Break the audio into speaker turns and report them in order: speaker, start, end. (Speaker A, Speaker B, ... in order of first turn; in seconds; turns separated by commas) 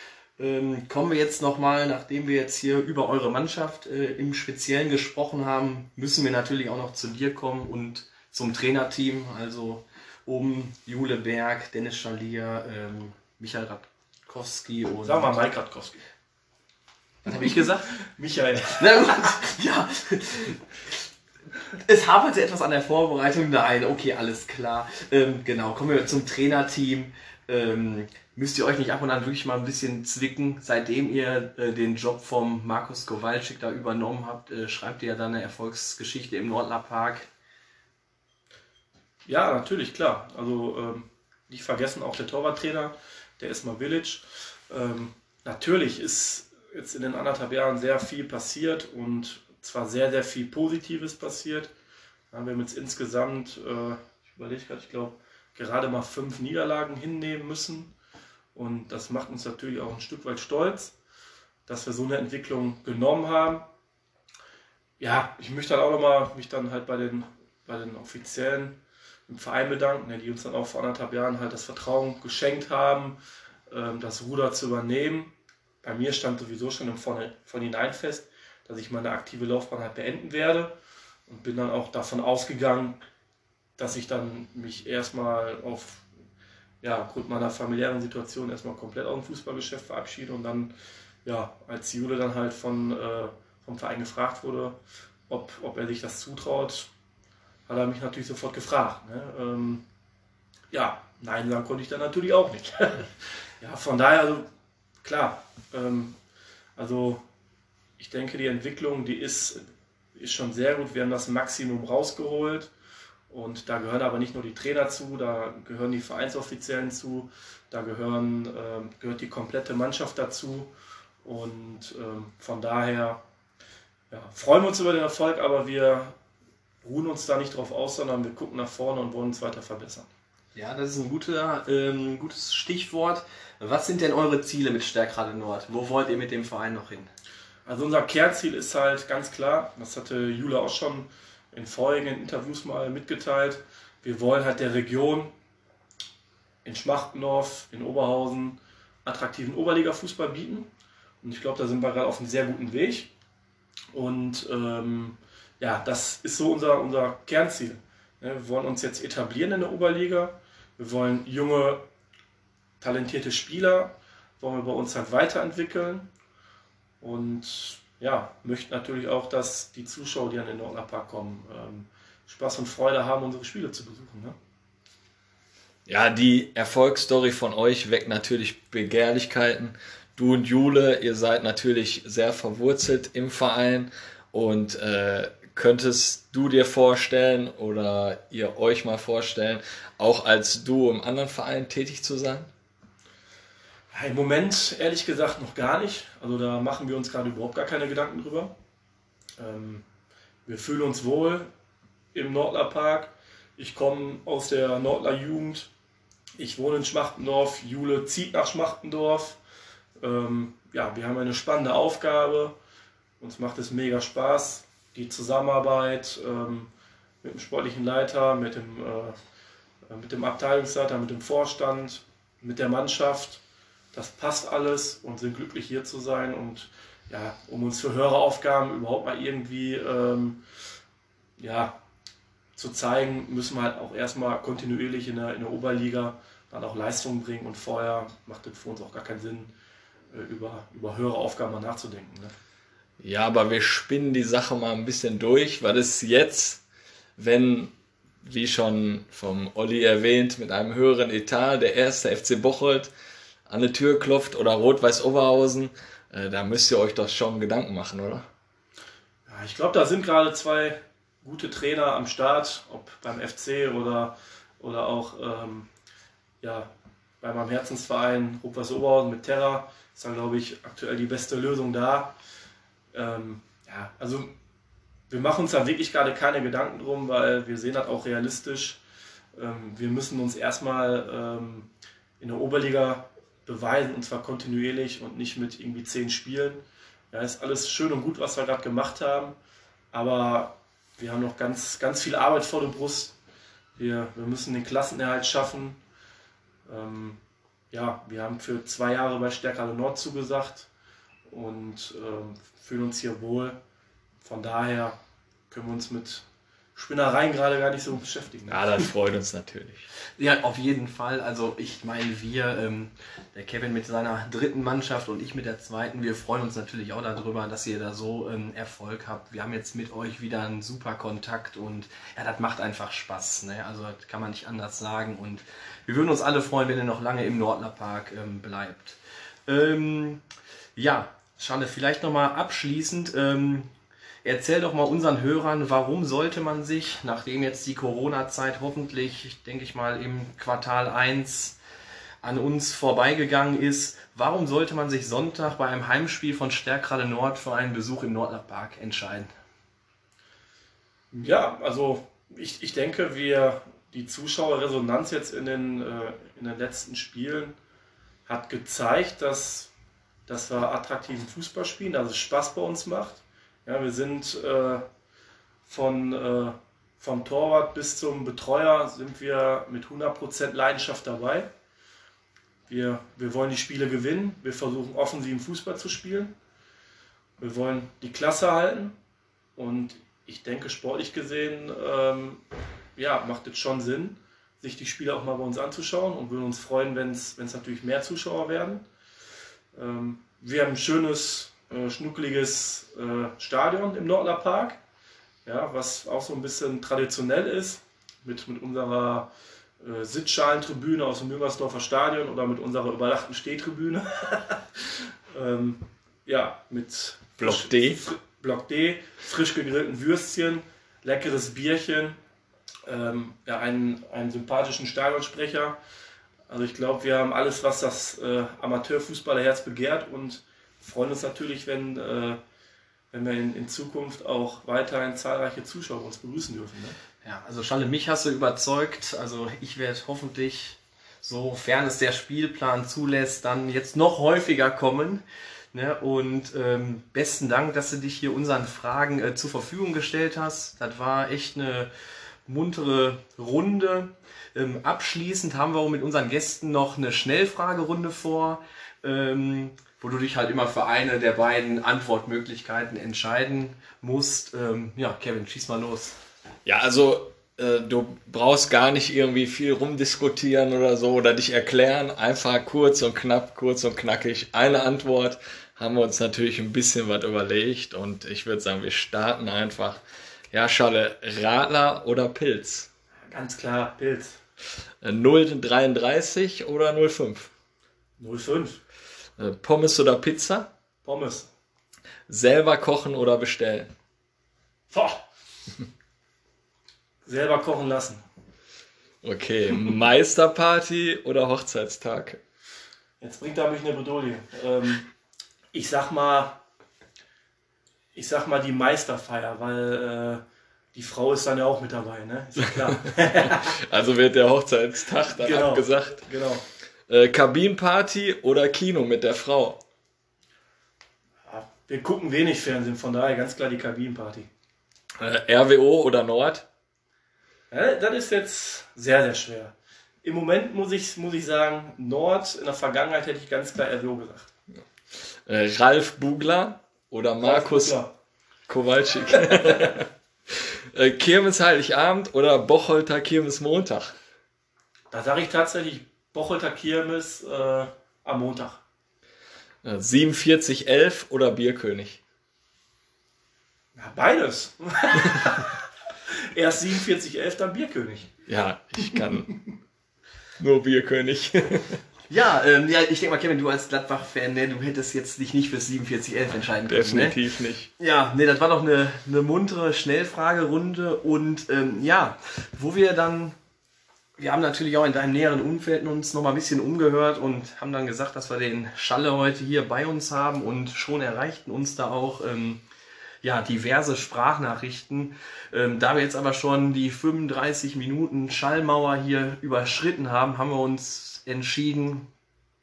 Speaker A: 0.4-15.3, Speaker B: 15.0-16.0, Speaker A: 17.2-17.9, Speaker B: 18.1-19.1, Speaker A: 18.8-21.0, Speaker A: 21.8-37.3, Speaker B: 39.2-51.7, Speaker B: 52.3-57.9, Speaker B: 58.5-60.9, Speaker B: 61.7-63.7, Speaker B: 65.0-80.7, Speaker B: 81.3-83.0, Speaker B: 83.8-86.0, Speaker B: 86.8-90.7, Speaker B: 91.2-96.9, Speaker B: 97.7-99.8, Speaker B: 100.7-104.5, Speaker B: 105.0-106.2, Speaker B: 106.8-107.2, Speaker B: 108.0-109.6, Speaker B: 110.2-112.7, Speaker B: 113.3-120.7, Speaker B: 121.2-123.2, Speaker B: 124.1-126.2, Speaker B: 126.8-130.1, Speaker A: 130.5-137.1, Speaker B: 137.7-145.3, Speaker B: 146.6-150.7, Speaker B: 151.2-153.1, Speaker B: 153.9-161.8, Speaker B: 162.8-166.1, Speaker B: 167.0-174.3, Speaker C: 175.8-192.5, Speaker B: 193.9-198.5, Speaker B: 199.4-199.8, Speaker B: 200.4-201.5, Speaker B: 202.1-205.7, Speaker B: 206.4-209.4, Speaker B: 210.0-212.5, Speaker B: 213.2-216.7, Speaker B: 217.2-219.2, Speaker B: 219.8-223.4, Speaker B: 223.9-230.4, Speaker B: 231.4-231.8, Speaker B: 232.6-239.5, Speaker B: 240.1-242.3, Speaker C: 243.0-246.6, Speaker C: 247.2-252.9, Speaker C: 253.4-258.2, Speaker B: 259.3-265.7, Speaker B: 266.4-272.2, Speaker B: 272.9-274.3, Speaker B: 275.1-278.8, Speaker B: 279.4-289.4, Speaker B: 289.9-293.1, Speaker B: 293.8-295.8, Speaker B: 296.6-297.2, Speaker B: 297.7-300.7, Speaker B: 301.3-303.6, Speaker B: 304.2-305.0, Speaker B: 305.5-306.2, Speaker B: 306.8-308.9, Speaker C: 308.5-309.9, Speaker A: 310.2-330.2, Speaker A: 330.8-333.7, Speaker A: 334.2-341.6, Speaker A: 342.2-349.3, Speaker B: 351.1-357.5, Speaker B: 358.2-359.7, Speaker B: 360.3-364.9, Speaker B: 365.6-371.5, Speaker B: 372.7-376.3, Speaker B: 377.4-378.9, Speaker B: 379.6-382.4, Speaker B: 382.9-388.8, Speaker B: 389.7-394.8, Speaker B: 395.4-412.2, Speaker C: 407.4-408.0, Speaker B: 412.9-415.8, Speaker B: 416.5-422.4, Speaker B: 423.1-427.0, Speaker A: 427.2-441.9, Speaker A: 442.4-456.2, Speaker C: 456.6-470.0, Speaker C: 470.5-472.9, Speaker B: 473.3-474.4, Speaker C: 475.0-477.5, Speaker B: 478.2-478.8, Speaker C: 479.4-480.7, Speaker B: 481.0-481.5, Speaker C: 482.3-483.9, Speaker B: 484.9-485.2, Speaker B: 487.2-488.2, Speaker C: 489.2-492.4, Speaker B: 493.2-495.1, Speaker B: 495.7-496.6, Speaker B: 498.1-500.4, Speaker B: 500.9-503.7, Speaker C: 503.3-506.3, Speaker B: 505.3-506.6, Speaker C: 507.1-509.8, Speaker B: 511.4-514.5, Speaker C: 515.2-516.6, Speaker B: 517.7-524.5, Speaker C: 525.5-528.0, Speaker B: 527.4-528.1, Speaker C: 528.7-534.1, Speaker B: 529.3-529.9, Speaker B: 535.1-538.8, Speaker C: 539.8-542.2, Speaker B: 544.0-548.3, Speaker C: 548.5-549.5, Speaker C: 550.6-552.0, Speaker A: 552.3-557.4, Speaker C: 556.9-557.9, Speaker A: 558.0-563.5, Speaker A: 564.4-572.8, Speaker A: 573.4-582.3